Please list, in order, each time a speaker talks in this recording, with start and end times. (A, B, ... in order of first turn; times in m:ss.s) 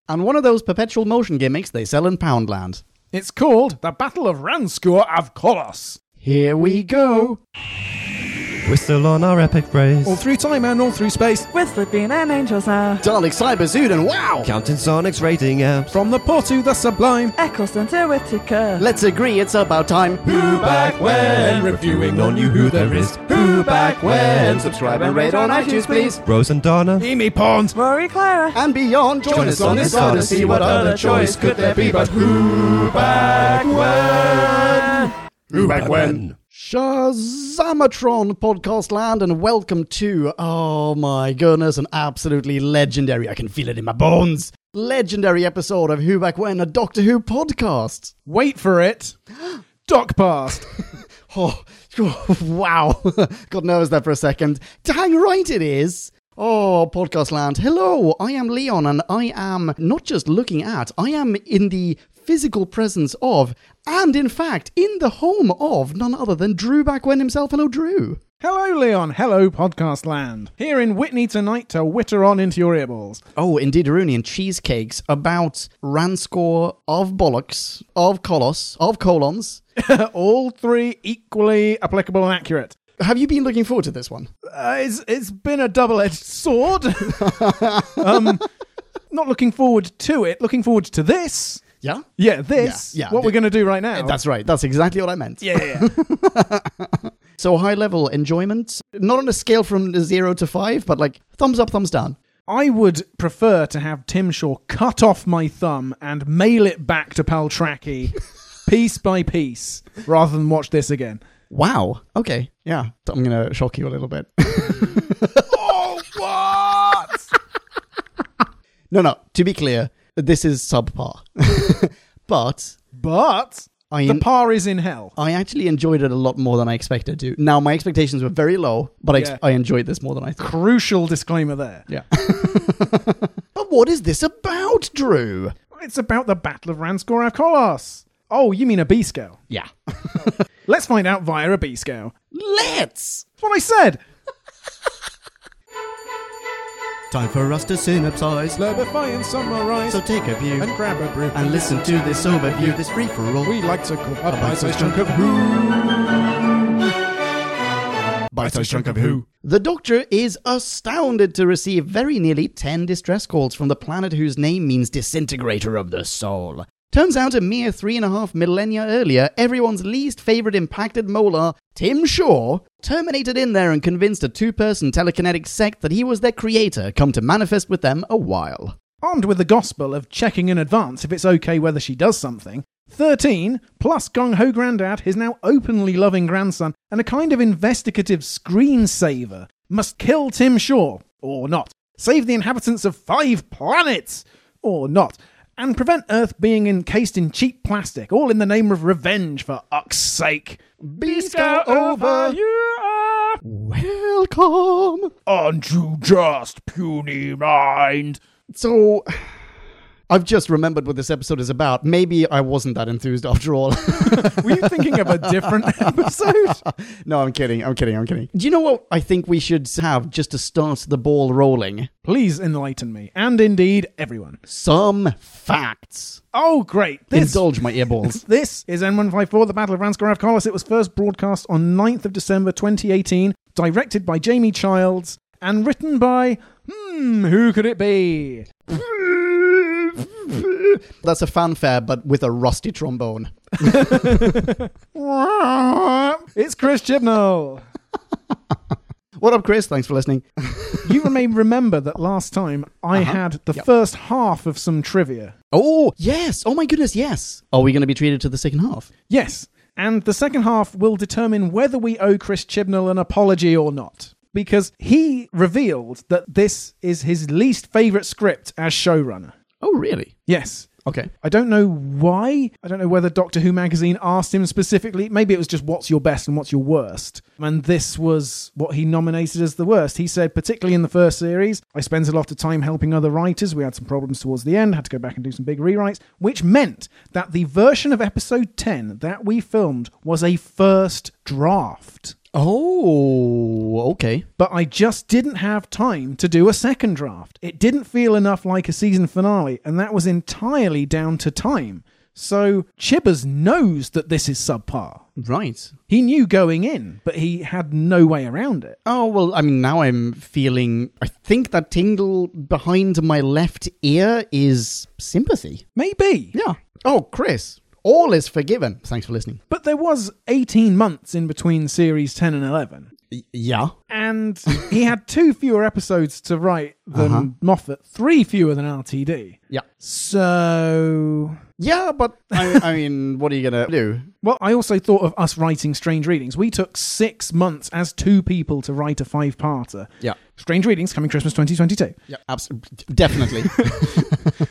0:00.1-0:02.8 A
0:03.1-0:06.0 B
0:06.2-0:07.4 A
0:08.6-0:10.2 C
0:10.0-0:11.5 B
0:11.5-0:13.0 D
0:13.0-0:14.5 A
0:14.4-0:15.9 C
0:15.9-0:17.4 B
0:17.4-0:18.8 D
0:18.8-0:21.6 A
0:20.3-0:27.0 C
0:21.1-0:23.1 B
0:23.3-0:26.2 A
0:25.3-0:25.8 D
0:27.0-0:27.8 B
0:27.8-0:28.6 D
0:28.5-0:48.2 A
0:29.3-0:36.3 C
0:29.3-0:30.8 B
0:31.0-0:31.5 D
0:33.9-0:34.7 B
0:48.3-0:49.2 B
0:49.8-0:50.7 B
0:51.3-1:08.2 A
1:08.4-1:13.2 B
1:13.4-1:19.6 A
1:19.8-1:22.8 B
1:23.0-1:24.3 A
1:24.4-1:28.4 B
1:27.1-1:28.4 A
1:29.1-1:31.6 B
1:31.8-1:33.4 A
1:32.2-1:34.2 B
1:34.0-1:42.2 A
1:35.4-1:35.9 B
1:42.5-1:51.2 B
1:51.5-1:55.5 A
1:55.5-1:57.3 B
1:58.9-2:02.8 A
2:02.9-2:05.1 B
2:03.9-2:04.3 A
2:05.2-2:10.5 A
2:09.2-2:09.4 B
2:10.4-2:11.9 B
2:11.9-2:15.6 A
2:15.7-2:19.4 B
2:19.5-2:20.4 A
2:20.7-2:22.1 B
2:22.3-2:23.3 A
2:23.4-2:24.0 B
2:27.1-2:28.6 A
2:28.6-2:30.0 B
2:29.9-2:30.7 A
2:30.6-2:32.8 B
2:31.3-2:33.6 A
2:33.4-2:35.3 B
2:34.3-2:36.1 A
2:38.3-2:58.8 A
2:38.4-2:39.2 B
2:59.0-3:23.4 B
3:20.8-3:22.4 A
3:23.4-3:25.1 A
3:25.3-3:28.2 B
3:28.5-3:29.4 A
3:30.1-3:41.9 A
3:34.0-3:36.6 B
3:42.0-3:44.4 B
3:44.5-3:46.2 A
3:46.3-3:58.5 B
3:47.1-3:48.2 A
3:58.7-4:04.5 A
4:03.6-4:07.6 B
4:05.8-4:06.2 A
4:09.2-4:11.1 A
4:10.8-4:15.3 B
4:12.9-4:13.6 A
4:15.5-4:18.9 A
4:19.1-4:29.3 B
4:29.6-4:30.1 A
4:30.3-4:30.7 B
4:30.8-4:31.1 A
4:31.2-4:52.2 B
4:52.3-4:54.3 A
4:54.4-5:05.0 B
5:05.2-5:05.8 A
5:05.9-5:08.8 B
5:08.9-5:15.6 A
5:15.8-5:16.3 B
5:16.3-5:19.4 A
5:19.5-5:22.9 B
5:23.1-5:23.7 A
5:23.9-5:31.4 B
5:26.9-5:27.3 A
5:31.6-5:34.1 A
5:32.4-5:32.7 B
5:34.2-5:42.0 B
5:42.1-5:44.3 A
5:43.1-5:43.9 B